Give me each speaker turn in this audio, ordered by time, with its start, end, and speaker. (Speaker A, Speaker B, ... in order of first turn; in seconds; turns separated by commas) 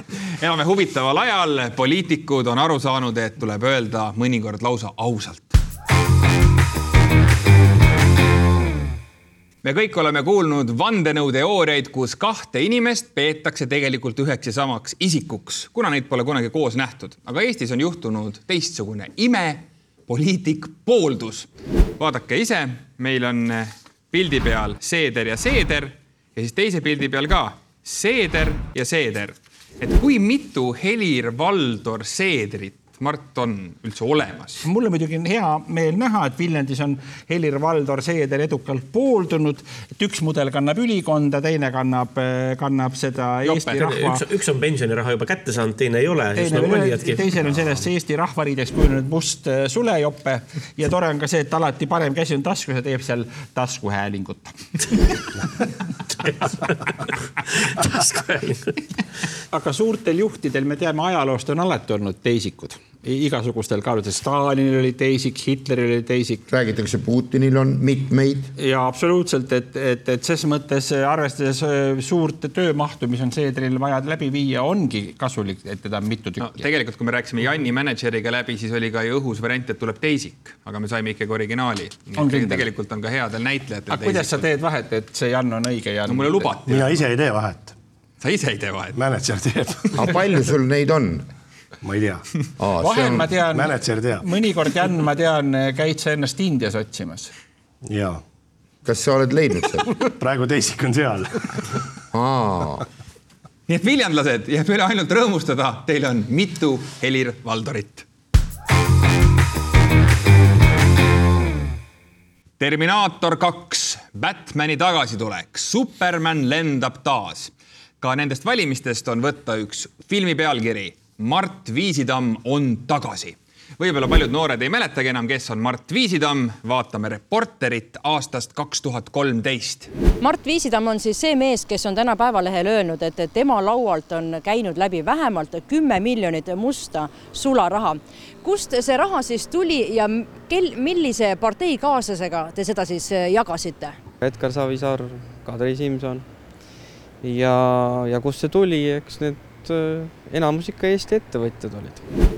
Speaker A: 0.4-5.6, Speaker A: 9.6-21.5, Speaker A: 22.0-34.6, Speaker B: 34.6-44.2, Speaker C: 43.4-47.2, Speaker B: 46.4-54.6, Speaker C: 57.6-58.7, Speaker B: 59.5-66.4, Speaker D: 66.5-68.5, Speaker B: 68.6-76.7, Speaker A: 76.4-84.5, Speaker B: 82.2-82.7, Speaker B: 83.9-86.6, Speaker A: 86.1-87.0, Speaker E: 86.7-87.8, Speaker A: 88.2-89.0, Speaker E: 89.0-90.1, Speaker D: 90.0-91.3, Speaker E: 91.8-92.3, Speaker D: 92.6-93.3, Speaker B: 92.8-97.3, Speaker E: 93.5-94.2, Speaker E: 97.8-98.2, Speaker D: 98.8-99.9, Speaker E: 100.2-101.8, Speaker D: 102.1-102.8, Speaker A: 103.7-108.0, Speaker A: 112.6-129.9, Speaker F: 130.2-143.9, Speaker G: 144.2-146.4, Speaker G: 147.2-152.0